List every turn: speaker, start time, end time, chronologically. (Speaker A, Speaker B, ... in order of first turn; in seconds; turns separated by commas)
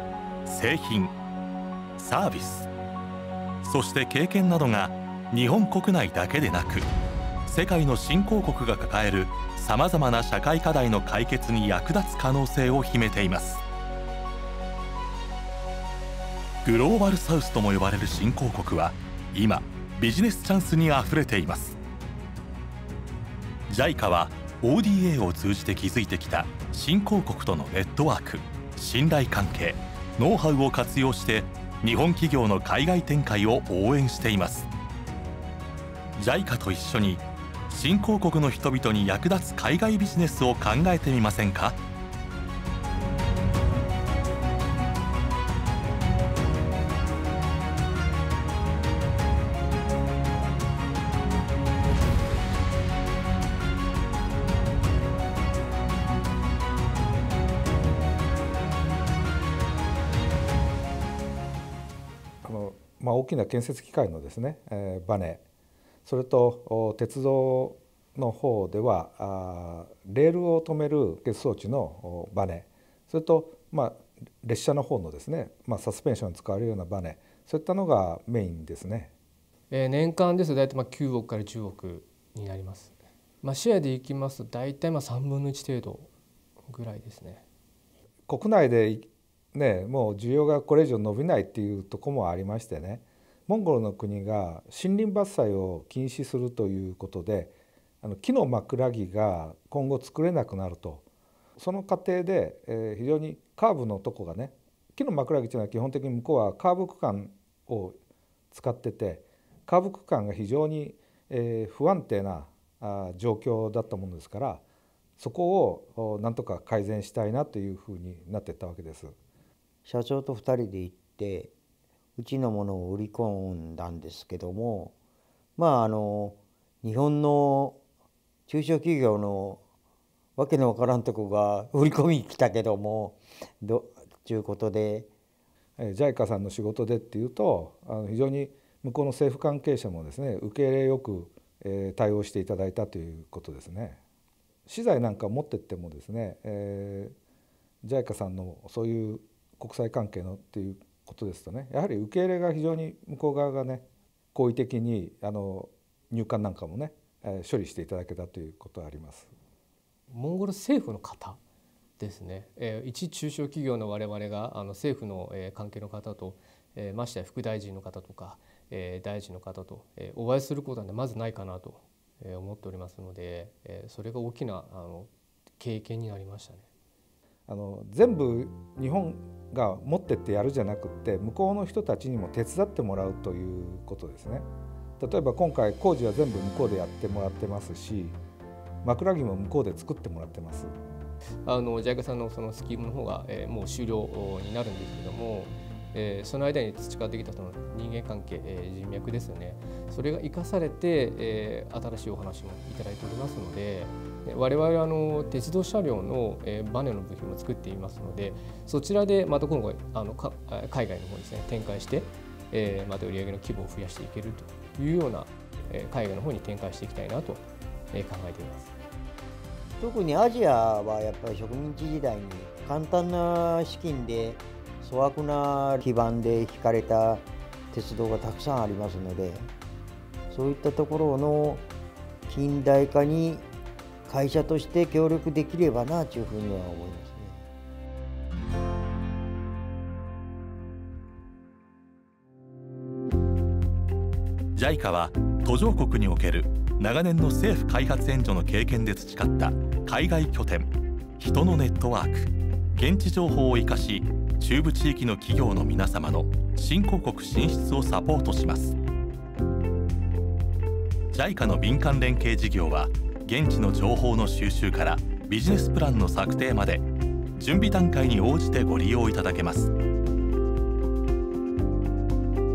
Speaker A: 0.5-1.1, Speaker A: 2.0-2.7, Speaker A: 3.6-6.9, Speaker A: 7.5-13.6, Speaker A: 16.6-21.8, Speaker A: 23.7-34.7, Speaker A: 36.1-41.8, Speaker B: 62.4-65.4, Speaker B: 66.0-79.1, Speaker C: 79.7-86.1, Speaker C: 86.7-87.4, Speaker B: 88.3-101.0, Speaker B: 101.6-108.0, Speaker B: 108.5-114.6, Speaker B: 115.2-119.1, Speaker D: 119.8-121.5, Speaker D: 122.2-124.9, Speaker D: 125.6-127.8, Speaker D: 128.5-129.6, Speaker D: 130.3-135.1, Speaker B: 135.8-144.0, Speaker B: 144.7-147.1, Speaker B: 147.8-159.3, Speaker C: 160.1-161.4, Speaker C: 162.0-176.7, Speaker B: 177.5-184.5, Speaker B: 185.0-188.2, Speaker B: 188.8-190.7, Speaker C: 191.4-218.7, Speaker D: 219.8-229.5, Speaker D: 230.3-231.7, Speaker D: 232.3-233.5, Speaker D: 234.1-237.4, Speaker A: 244.5-258.8, Speaker A: 261.1-266.8, Speaker A: 267.4-269.7